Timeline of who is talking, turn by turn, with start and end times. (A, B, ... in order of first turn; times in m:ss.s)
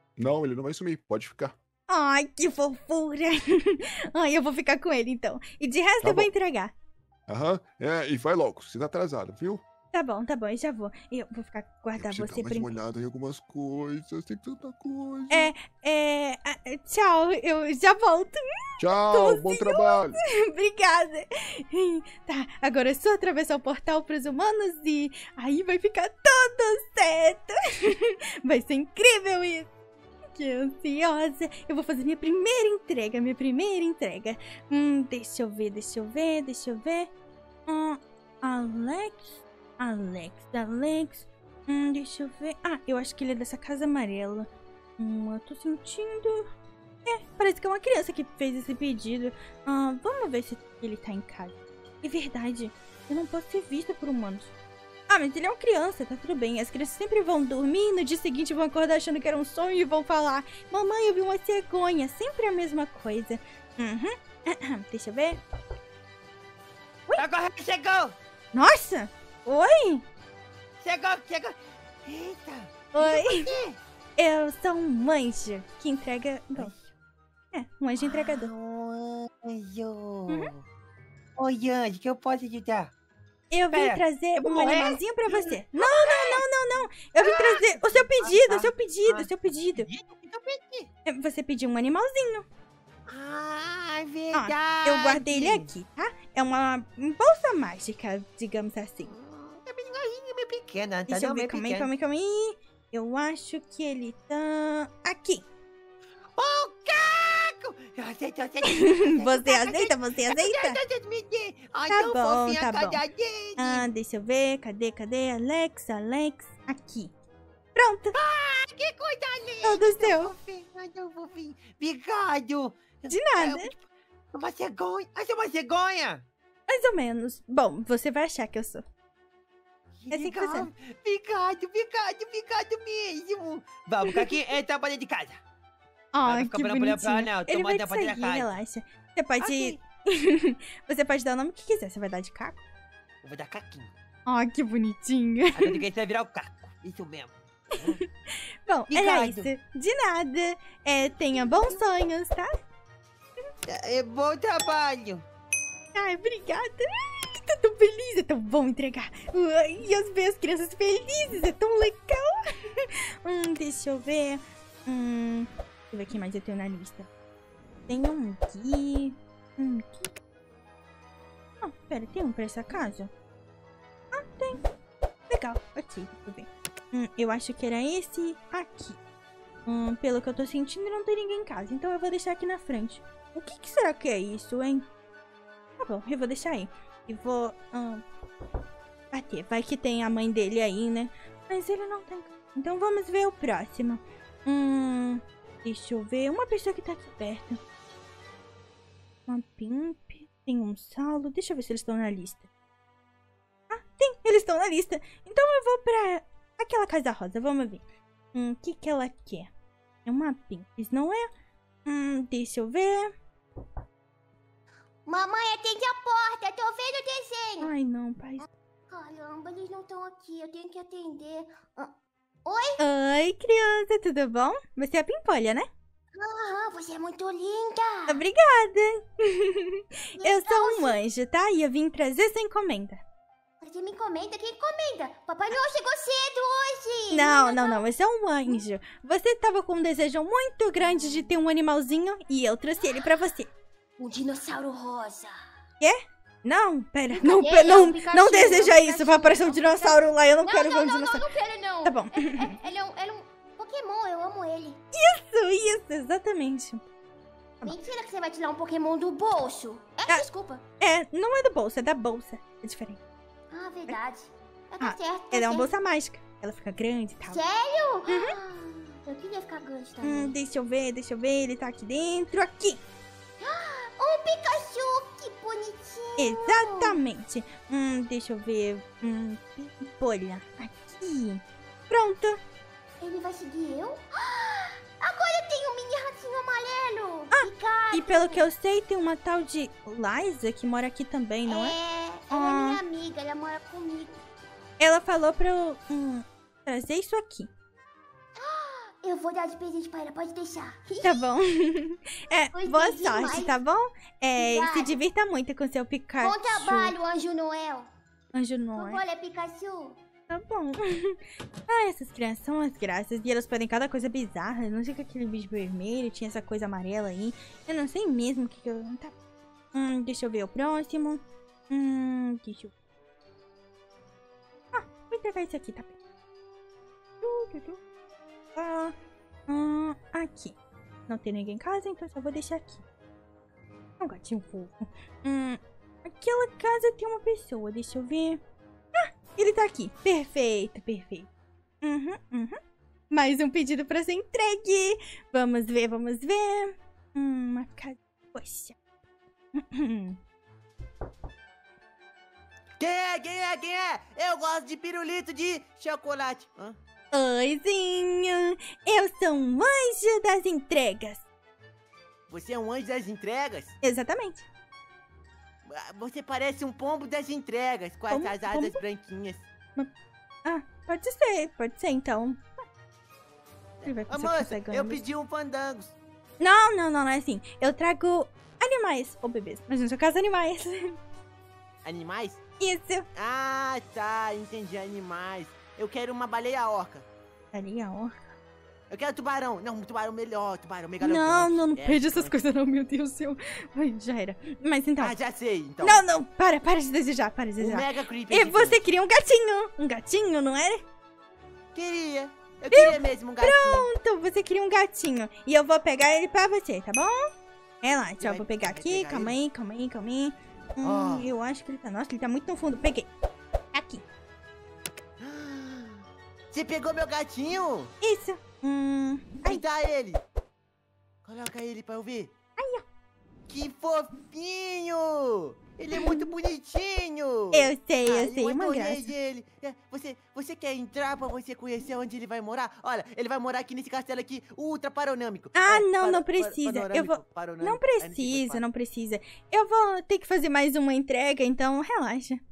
0:00.2-0:01.6 A
0:01.9-0:06.7 B
0:06.0-0:06.3 A
0:07.3-0:09.6 A
0:09.9-0:12.7 B
0:12.0-0:15.5 A
0:15.3-0:18.4 B
0:18.8-0:20.2 A
0:19.1-0:29.7 B
0:30.4-0:37.1 B
0:37.7-0:46.5 B
0:47.1-0:54.5 B
0:55.1-1:05.4 B
1:07.2-1:08.2 C
1:08.5-1:10.0 B
1:10.8-1:13.8 C
1:12.9-1:13.5 B
1:14.2-1:16.7 B
1:16.6-1:16.8 C
1:17.5-1:18.5 B
1:18.0-1:20.6 C
1:21.4-1:22.9 C
1:23.5-1:29.9 B
1:23.7-1:30.9 C
1:31.1-1:32.5 B
1:33.1-1:35.7 C
1:34.3-1:39.1 B
1:39.1-1:41.9 C
1:41.1-1:45.4 B
1:46.4-1:53.8 C
1:48.7-1:50.8 B
1:51.9-1:53.0 B
1:53.6-1:57.1 B
1:57.8-1:58.2 B
1:58.1-2:06.2 C
1:59.6-2:00.3 B
2:03.1-2:03.7 B
2:06.7-2:08.8 B
2:10.0-2:15.4 C
2:10.1-2:10.7 B
2:14.0-2:14.3 B
2:16.1-2:22.6 B
2:16.2-2:18.5 C
2:19.4-2:19.8 C
2:23.2-2:23.9 C
2:24.3-2:25.8 B
2:25.6-2:28.0 C
2:28.7-2:32.5 B
2:28.9-2:29.5 C
2:33.7-2:35.3 C
2:36.0-2:47.1 B
2:47.9-2:50.1 B
2:51.6-2:53.1 B
2:54.1-2:54.6 B
2:55.3-2:59.0 B
2:59.7-3:04.9 B
3:05.8-3:08.0 B
3:09.1-3:17.6 B
3:19.3-3:22.5 B
3:23.7-3:29.5 B
3:30.0-3:31.3 B
3:31.8-3:33.1 B
3:35.0-3:37.7 D
3:37.6-3:38.5 B
3:38.9-3:42.8 D
3:42.8-3:45.7 B
3:46.1-3:48.2 D
3:48.1-3:53.0 B
3:50.2-3:51.0 D
3:53.6-3:57.8 D
3:57.1-4:03.5 B
4:04.0-4:05.4 D
4:05.8-4:11.3 B
4:07.1-4:14.8 D
4:11.8-4:12.5 B
4:14.9-4:16.9 B
4:17.6-4:20.6 D
4:20.8-4:23.0 B
4:23.5-4:25.7 D
4:24.8-4:27.4 B
4:27.3-4:30.4 D
4:28.1-4:28.4 B
4:30.0-4:32.8 B
4:33.4-4:37.0 D
4:36.2-4:42.4 B
4:43.0-4:48.5 D
4:47.3-4:51.8 B
4:51.5-4:54.2 D
4:52.3-4:52.8 B
4:54.8-4:57.5 B
4:58.4-5:01.2 D
5:01.0-5:07.0 B
5:02.5-5:03.5 D
5:04.4-5:05.0 D
5:06.2-5:07.9 D
5:08.3-5:09.0 B
5:08.8-5:10.0 D
5:10.3-5:19.1 B
5:19.7-5:22.7 B
5:24.7-5:26.0 B
5:27.2-5:27.8 B
5:28.6-5:29.0 B
5:29.5-5:30.6 B
5:31.1-5:32.8 B
5:34.0-5:38.4 B
5:39.0-5:41.3 B
5:41.8-5:42.6 B
5:43.1-5:48.8 B
5:49.5-5:50.2 B
5:52.8-5:56.8 C
5:57.1-6:01.2 B
6:02.3-6:03.8 C
6:03.8-6:04.5 B
6:05.6-6:09.5 C
6:08.1-6:08.8 B
6:10.4-6:12.5 B
6:13.8-6:16.0 C
6:13.8-6:15.1 B
6:16.4-6:21.0 B
6:21.8-6:22.4 C
6:22.6-6:23.1 B
6:23.1-6:27.1 C
6:27.5-6:28.2 B
6:28.9-6:32.4 C
6:31.0-6:35.2 B
6:35.0-6:36.0 C
6:35.8-6:40.8 B
6:37.6-6:38.8 C
6:41.7-6:43.9 C
6:42.7-6:47.2 B
6:47.8-6:53.1 B
6:48.2-6:49.4 C
6:50.8-6:51.3 C
6:53.7-6:54.0 B
6:55.2-6:57.9 C
6:58.0-6:59.6 B
6:59.4-7:00.2 C
7:01.2-7:02.3 C
7:02.6-7:02.8 B
7:03.5-7:18.6 C
7:06.0-7:06.2 B
7:07.5-7:09.1 B
7:15.5-7:22.4 B